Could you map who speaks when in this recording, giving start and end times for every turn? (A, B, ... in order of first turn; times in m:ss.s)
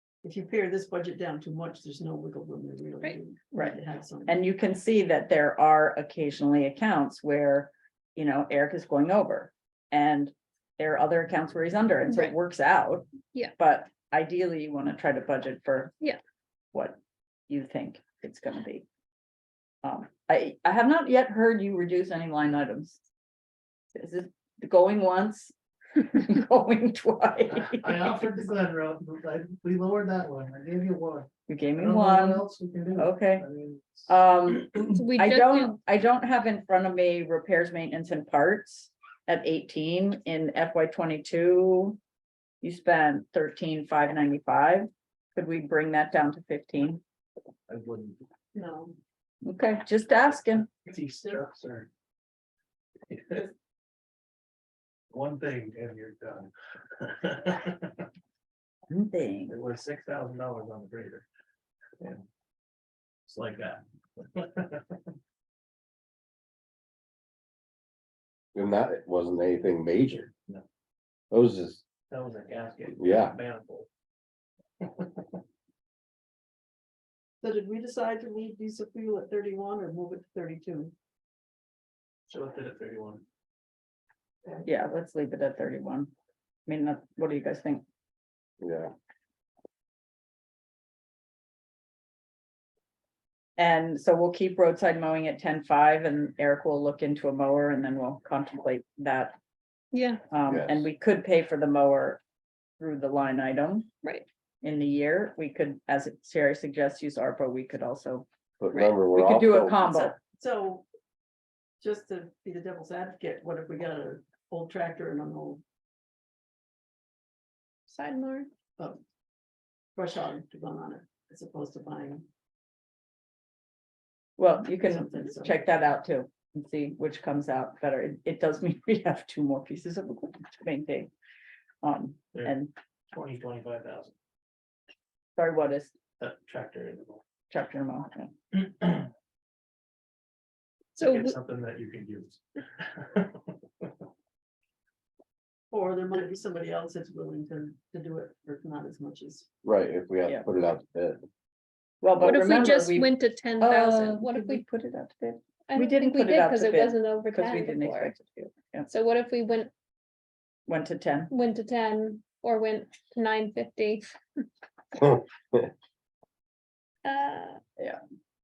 0:00.2-0:04.3 A
0:03.5-0:15.9 B
0:12.1-0:12.4 C
0:17.5-0:18.8 B
0:19.8-0:23.0 B
0:23.9-0:28.2 B
0:27.5-0:34.0 D
0:31.5-0:33.4 B
0:34.1-0:42.0 B
0:34.9-0:35.8 C
0:42.6-0:47.0 B
0:47.7-0:48.2 D
0:48.5-0:49.0 A
0:49.4-0:50.7 B
0:50.8-0:51.9 D
0:53.1-0:53.5 D
0:55.1-0:58.1 D
0:58.9-0:59.5 B
0:59.5-1:01.2 D
1:03.2-1:04.9 D
1:08.5-1:10.3 E
1:11.3-1:11.8 E
1:12.1-1:13.9 D
1:13.0-1:13.3 E
1:14.8-1:15.1 D
1:17.4-1:20.9 A
1:22.3-1:23.2 D
1:24.6-1:26.1 B
1:26.7-1:27.8 B
1:28.6-1:28.9 E
1:33.6-1:39.4 B
1:39.9-1:40.2 C
1:40.3-1:42.2 B
1:40.5-1:40.8 E
1:42.8-1:43.9 B
1:44.6-1:48.2 B
1:48.6-1:49.9 E
1:49.1-1:50.2 B
1:50.3-1:50.8 A
1:51.8-1:55.6 A
1:57.9-1:58.5 C
2:00.0-2:02.2 A
2:04.4-2:11.1 B
2:04.8-2:05.6 A
2:11.8-2:12.7 B
2:13.1-2:14.1 D
2:15.4-2:15.9 B
2:16.2-2:17.2 D
2:17.5-2:18.3 B
2:18.6-2:19.1 D
2:21.0-2:21.3 C
2:21.0-2:23.9 D
2:25.7-2:29.5 A
2:29.6-2:31.2 E
2:32.0-2:38.9 B
2:32.2-2:34.6 C
2:35.7-2:38.1 C
2:38.9-2:39.7 C
2:40.7-2:41.3 B
2:41.3-2:44.2 C
2:45.0-2:45.6 E
2:47.0-2:47.6 C